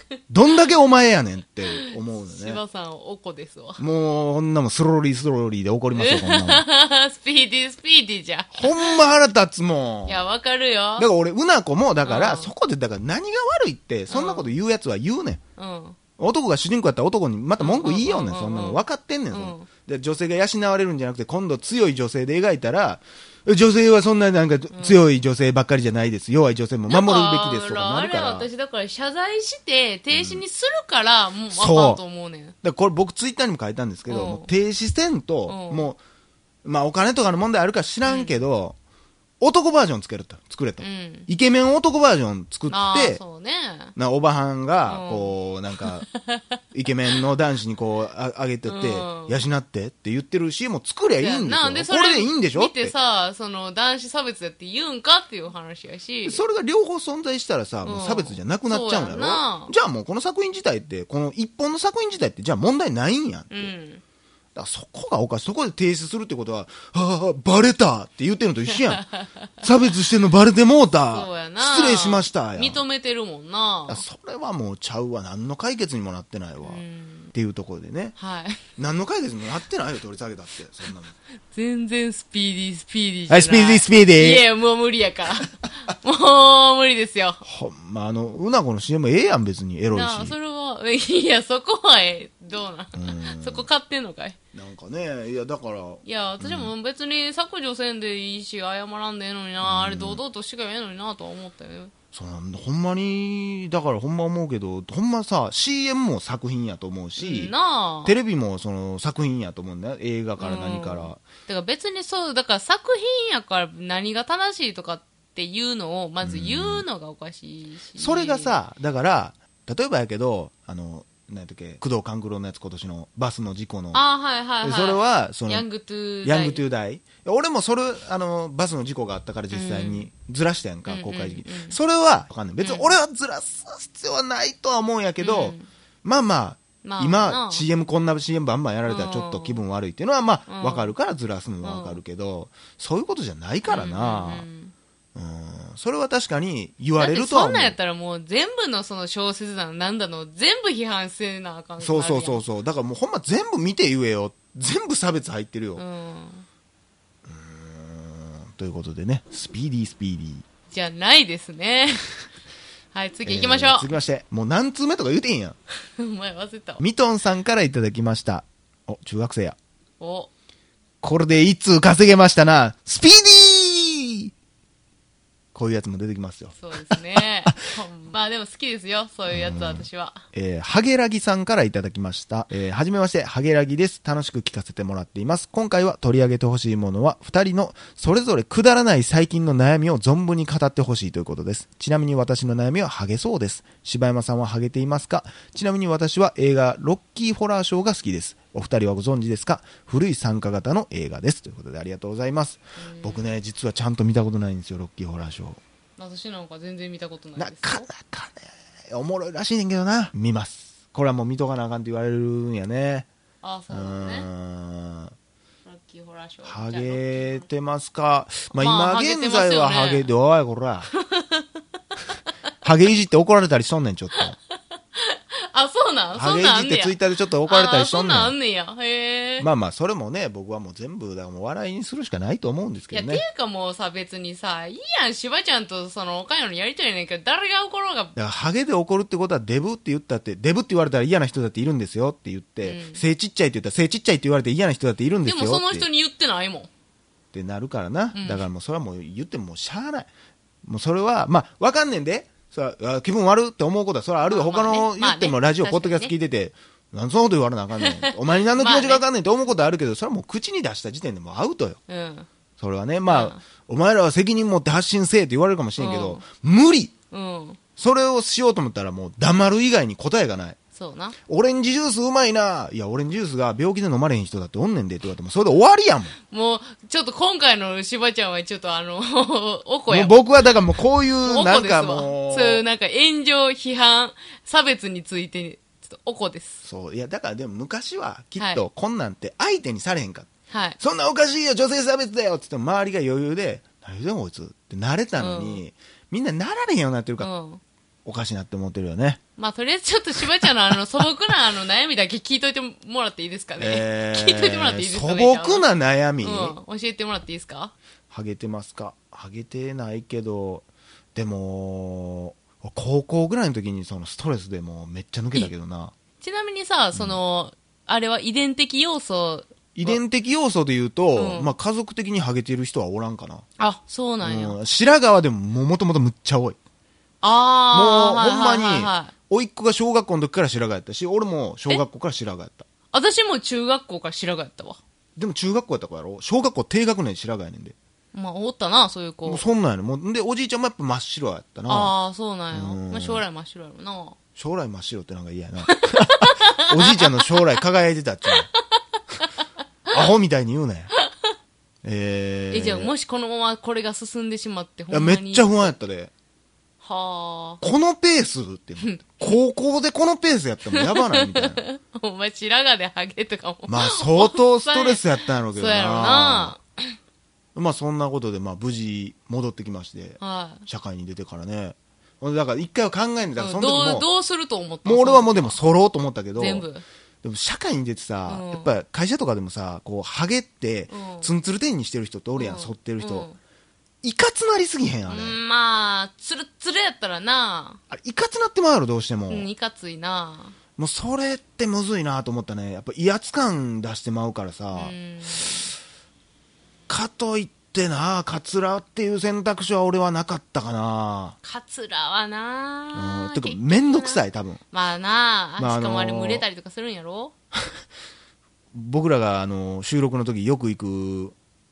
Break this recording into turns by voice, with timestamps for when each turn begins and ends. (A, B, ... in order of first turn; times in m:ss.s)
0:00.3-0:02.6 A
0:01.7-0:03.8 B
0:03.8-0:06.6 A
0:06.0-0:09.0 B
0:08.5-0:10.2 A
0:10.1-0:11.1 B
0:11.0-0:15.4 A
0:12.0-0:12.5 B
0:14.1-0:14.5 B
0:15.6-0:16.0 B
0:16.2-0:28.5 A
0:17.6-0:19.7 B
0:24.7-0:25.0 B
0:26.9-0:32.6 B
0:30.1-0:30.4 A
0:31.5-0:32.0 A
0:32.6-0:36.0 A
0:34.1-0:34.5 B
0:35.5-0:35.9 B
0:36.6-0:38.8 A
0:38.0-0:38.4 B
0:39.4-0:43.2 A
0:40.8-0:41.3 B
0:42.7-0:43.9 B
0:44.0-0:46.1 A
0:44.9-0:45.3 B
0:46.2-0:46.4 B
0:46.7-0:52.9 A
0:48.7-0:49.4 B
0:51.2-0:56.4 B
0:56.2-1:03.7 A
0:57.8-0:59.7 B
1:03.5-1:04.0 B
1:04.6-1:09.0 A
1:09.0-1:09.5 B
1:09.6-1:12.8 A
1:11.1-1:14.0 B
1:13.9-1:16.8 A
1:16.6-1:17.3 B
1:17.3-1:18.2 A
1:18.2-1:18.6 B
1:18.8-1:21.1 A
1:21.5-1:27.4 B
1:23.3-1:24.5 A
1:27.4-1:30.4 A
1:29.9-1:34.4 B
1:33.0-1:33.7 A
1:34.5-1:36.7 A
1:36.0-1:41.9 B
1:39.6-1:40.2 A
1:42.1-1:47.5 A
1:47.2-1:48.2 B
1:48.0-1:51.2 A
1:50.4-1:58.6 B
1:56.2-1:56.8 A
1:58.0-2:04.0 A
2:03.9-2:06.6 B
2:04.6-2:05.7 A
2:06.2-2:24.5 A
2:09.5-2:10.1 B
2:10.9-2:11.8 B
2:12.6-2:12.9 B
2:15.2-2:15.7 B
2:16.8-2:17.7 B
2:18.9-2:19.6 B
2:20.5-2:20.9 B
2:21.6-2:22.0 B
2:23.7-2:24.7 B
2:25.2-2:27.8 A
2:27.0-2:32.4 B
2:31.8-2:35.8 A
2:35.8-2:36.5 B
2:37.3-2:40.5 A
2:40.7-2:42.1 B
2:42.9-2:43.9 B
2:43.2-2:45.6 A
2:45.9-2:46.8 B
2:46.8-2:49.6 A
2:50.0-2:50.3 B
2:51.0-2:54.3 A
2:55.5-2:57.6 A
2:56.6-3:00.2 B
2:59.3-3:25.6 A
3:22.8-3:23.3 B
3:26.0-3:27.9 B
3:27.4-3:33.1 A
3:33.4-3:34.3 B
3:33.7-3:35.1 A
3:35.6-3:37.4 B
3:36.4-3:40.9 A
3:38.5-3:40.1 B
3:41.0-3:41.6 B
3:42.6-3:44.4 A
3:44.9-3:49.5 B
3:46.2-3:48.4 A
3:49.4-3:53.2 A
3:52.9-3:58.1 B
3:58.2-4:05.9 A
4:02.6-4:03.0 B
4:05.2-4:06.7 B
4:07.3-4:10.1 A
4:08.2-4:08.5 B
4:10.6-4:21.8 A
4:14.2-4:16.1 B
4:17.8-4:19.0 B
4:21.9-4:22.3 B
4:22.6-4:26.9 A
4:23.1-4:23.4 B
4:25.8-4:26.2 B
4:27.1-4:27.6 B
4:27.8-4:30.6 A
4:30.8-4:31.2 B
4:31.3-4:36.2 A
4:36.3-4:40.3 B
4:39.9-4:42.6 A
4:41.2-4:46.6 B
4:46.6-4:57.3 A
4:48.4-4:48.6 B
4:50.5-4:50.8 B
4:55.2-4:55.6 B
4:57.2-4:57.6 B
4:58.0-4:59.2 A
4:59.4-5:05.7 B
5:03.6-5:06.6 A
5:06.2-5:07.7 B
5:08.1-5:15.9 A
5:16.2-5:20.0 B
5:19.8-5:23.5 A
5:21.2-5:21.5 B
5:23.6-5:24.6 B
5:24.2-5:26.6 A
5:27.2-5:29.1 B
5:27.7-5:32.7 A
5:32.9-5:34.8 B
5:35.2-5:37.8 A
5:38.1-5:39.4 B
5:39.2-5:41.9 A
5:41.7-5:44.2 B
5:42.5-5:43.2 A
5:44.4-5:48.5 A
5:45.7-5:47.3 B
5:49.9-5:50.9 A
5:51.8-5:52.9 A
5:52.5-5:55.7 B
5:54.9-5:56.1 A
5:56.8-5:57.6 B
5:57.6-6:01.6 A
5:58.8-5:59.2 B
6:00.7-6:06.9 B
6:03.7-6:06.6 A
6:07.6-6:14.1 A
6:10.2-6:10.6 B
6:13.4-6:15.6 B
6:14.8-6:16.7 A
6:16.4-6:16.8 B
6:17.2-6:23.3 A
6:18.3-6:18.7 B
6:20.9-6:21.3 B
6:22.4-6:23.4 B
6:24.0-6:25.4 A
6:25.1-6:27.8 B
6:27.9-6:29.5 A
6:29.3-6:30.6 B
6:30.8-6:35.0 A
6:34.7-6:35.7 B
6:36.9-6:41.4 A
6:41.4-6:47.3 B
6:42.9-6:44.6 A
6:45.6-6:46.4 A
6:48.7-6:51.4 A